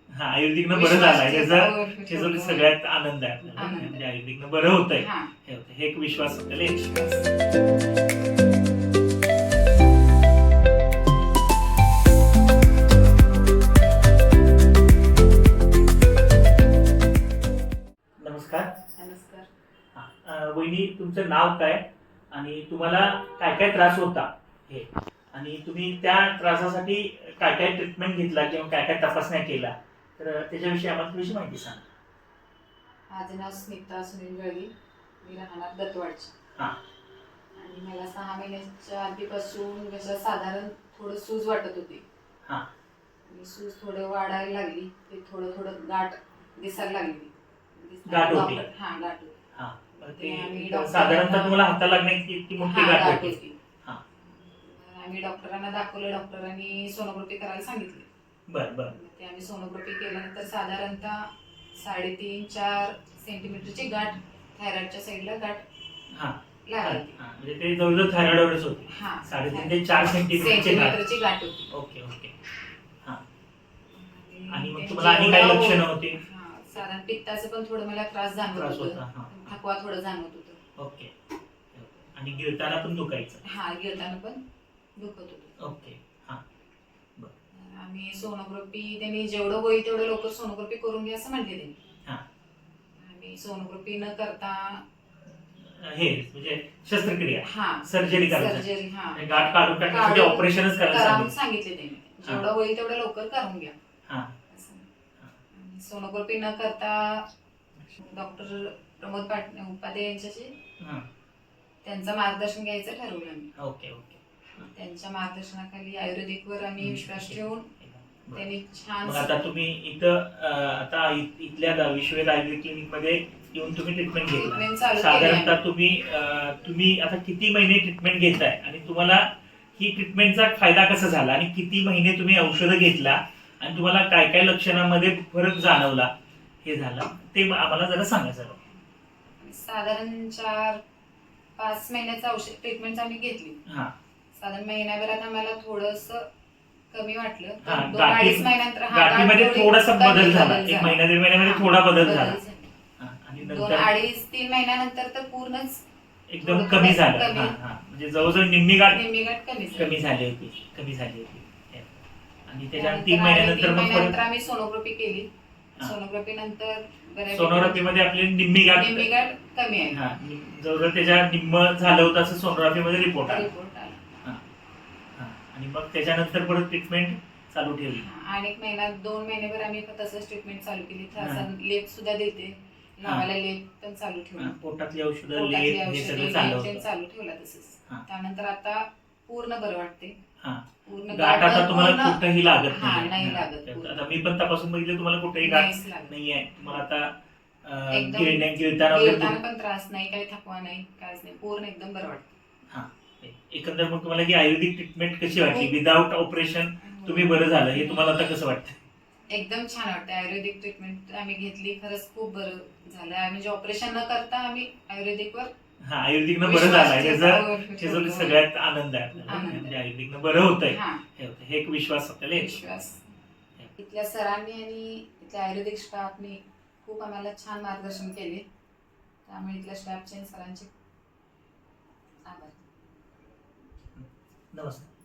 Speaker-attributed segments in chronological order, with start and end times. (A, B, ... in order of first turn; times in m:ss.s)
0:00.1-0:06.8 A
0:00.7-0:02.7 B
0:03.6-0:04.0 B
0:05.0-0:05.3 B
0:06.6-0:07.3 B
0:18.2-0:18.7 A
0:19.0-0:19.5 B
0:19.9-0:31.8 A
0:33.1-0:36.3 B
0:37.6-0:42.0 B
0:43.3-0:49.3 B
0:48.1-0:48.6 A
0:49.6-0:54.0 A
0:50.0-0:51.6 B
0:52.6-0:53.6 B
0:54.5-0:58.1 B
0:58.5-0:58.9 A
0:58.9-1:05.7 B
1:06.1-1:11.0 A
1:06.7-1:07.2 B
1:08.9-1:09.8 B
1:10.3-1:11.7 B
1:11.7-1:12.3 A
1:13.9-1:20.6 B
1:14.5-1:16.2 A
1:18.5-1:19.4 A
1:20.8-1:21.1 A
1:21.7-1:23.4 A
1:23.4-1:24.4 B
1:25.0-1:25.6 B
1:25.6-1:26.4 A
1:27.5-1:31.8 B
1:33.0-1:34.8 B
1:35.6-1:41.3 A
1:37.5-1:39.4 B
1:39.9-1:43.7 B
1:44.1-1:44.4 A
1:44.5-1:44.9 B
1:45.5-1:47.3 B
1:47.9-1:50.6 B
1:50.8-1:51.0 A
1:51.8-1:53.5 B
1:53.6-1:54.7 A
1:54.6-1:57.7 B
1:56.8-1:58.5 A
1:58.3-1:59.4 B
1:59.0-2:16.1 A
2:04.3-2:05.6 B
2:16.6-2:18.6 A
2:19.4-2:20.8 B
2:21.6-2:23.6 B
2:23.7-2:23.9 A
2:24.4-2:26.3 B
2:26.9-2:32.7 B
2:27.6-2:32.4 A
2:33.0-2:33.9 A
2:33.4-2:35.8 B
2:36.3-2:39.0 A
2:36.4-2:37.6 B
2:38.9-2:40.0 B
2:39.8-2:44.2 A
2:42.7-2:45.3 B
2:45.8-2:48.0 B
2:47.3-2:49.1 A
2:48.7-2:50.0 B
2:49.9-2:53.5 A
2:53.2-2:54.0 B
2:55.2-2:58.0 A
2:57.9-3:04.6 B
3:01.2-3:01.5 A
3:04.4-3:06.8 A
3:05.3-3:10.2 B
3:10.4-3:17.1 A
3:10.8-3:12.2 B
3:12.7-3:14.0 B
3:15.4-3:16.8 B
3:17.6-3:19.4 A
3:17.9-3:22.4 B
3:22.7-3:28.8 A
3:25.4-3:25.7 B
3:26.8-3:28.1 B
3:29.3-3:35.5 B
3:35.8-3:42.6 A
3:36.4-3:38.4 B
3:39.2-3:39.8 B
3:40.7-3:41.0 B
3:42.4-3:43.0 B
3:43.8-3:48.4 B
3:49.3-3:50.7 B
3:52.3-3:52.6 B
3:53.9-3:54.9 A